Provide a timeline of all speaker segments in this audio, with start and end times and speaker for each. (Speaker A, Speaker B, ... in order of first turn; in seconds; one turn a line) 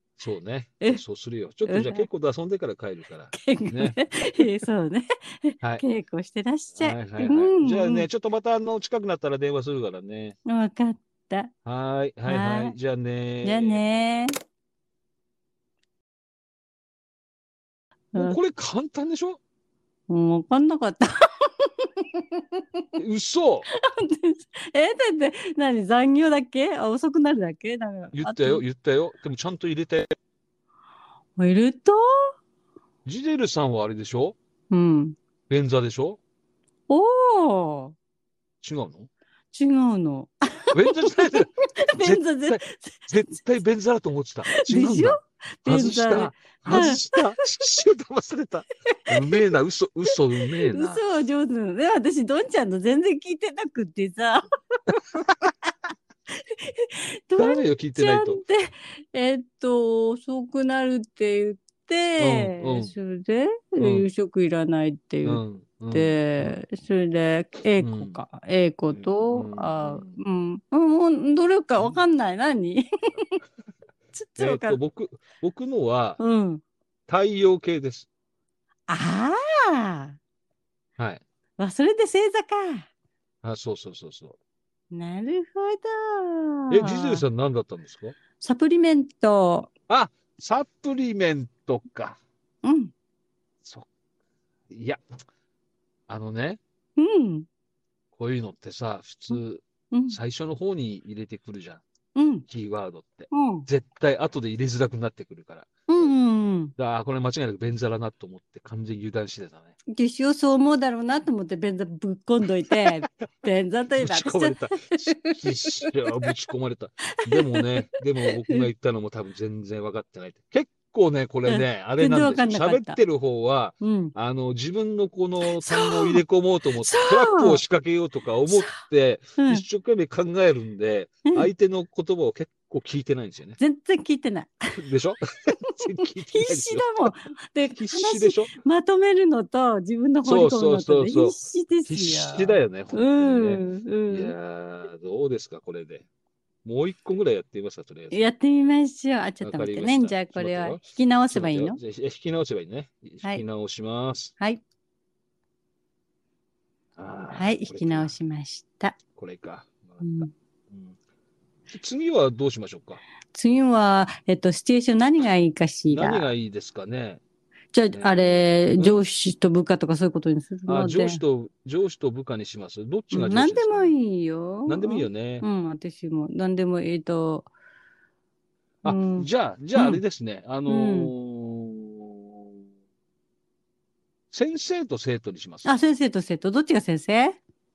Speaker A: 0.2-4.1
Speaker B: 1.6-2.1
Speaker B: 3.3-8.1
Speaker A: 6.8-10.4
Speaker B: 10.5-11.5
Speaker A: 11.7-13.8
Speaker B: 12.3-12.8
Speaker B: 13.4-14.3
Speaker A: 18.1-19.4
Speaker B: 20.1-22.9
Speaker A: 23.0-23.7
Speaker B: 23.7-28.6
Speaker A: 28.1-30.1
Speaker B: 31.4-32.3
Speaker A: 33.0-34.4
Speaker B: 34.7-35.2
Speaker A: 35.5-36.2
Speaker B: 36.9-38.0
Speaker A: 38.6-39.1
Speaker B: 39.5-43.1
Speaker A: 40.7-51.0
Speaker B: 44.5-47.2
Speaker B: 49.1-49.4
Speaker B: 50.7-55.7
Speaker B: 56.4-73.4
Speaker A: 57.4-58.4
Speaker A: 62.2-62.9
Speaker A: 63.8-64.1
Speaker A: 65.2-66.6
Speaker A: 67.8-68.2
Speaker A: 68.9-70.2
Speaker B: 74.2-74.8
Speaker A: 74.4-76.2
Speaker B: 76.2-76.6
Speaker A: 77.1-78.1
Speaker B: 78.9-80.2
Speaker A: 81.0-81.2
Speaker B: 81.6-82.9
Speaker A: 83.4-84.4
Speaker B: 84.9-87.2
Speaker A: 86.7-88.2
Speaker B: 88.4-89.7
Speaker A: 89.9-92.2
Speaker B: 92.6-92.9
Speaker A: 94.7-95.0
Speaker A: 96.1-96.6
Speaker B: 97.0-97.5
Speaker A: 98.1-101.8
Speaker B: 99.9-100.2
Speaker B: 102.2-102.5
Speaker A: 102.5-106.1
Speaker B: 103.3-103.7
Speaker B: 105.9-106.7
Speaker A: 106.8-109.8
Speaker B: 109.9-116.3
Speaker A: 114.0-133.6
Speaker B: 117.2-118.6
Speaker B: 121.5-123.0
Speaker B: 123.8-124.1
Speaker B: 125.6-126.2
Speaker B: 126.8-127.6
Speaker B: 128.5-128.8
Speaker B: 129.4-129.6
Speaker B: 133.6-134.6
Speaker A: 134.8-137.1
Speaker B: 136.3-144.3
Speaker A: 137.8-138.6
Speaker A: 140.2-146.1
Speaker A: 146.7-148.2
Speaker B: 148.1-151.8
Speaker A: 149.4-154.3
Speaker A: 157.0-158.2
Speaker B: 157.3-159.0
Speaker A: 159.2-161.0
Speaker B: 160.0-160.3
Speaker A: 161.7-163.0
Speaker B: 163.3-166.3
Speaker A: 165.9-167.2
Speaker B: 167.7-171.2
Speaker A: 167.9-169.0
Speaker A: 170.7-173.9
Speaker B: 173.1-177.5
Speaker A: 174.7-175.5
Speaker A: 178.8-182.4
Speaker B: 178.8-180.0
Speaker B: 180.7-181.1
Speaker A: 184.3-185.8
Speaker B: 185.7-187.4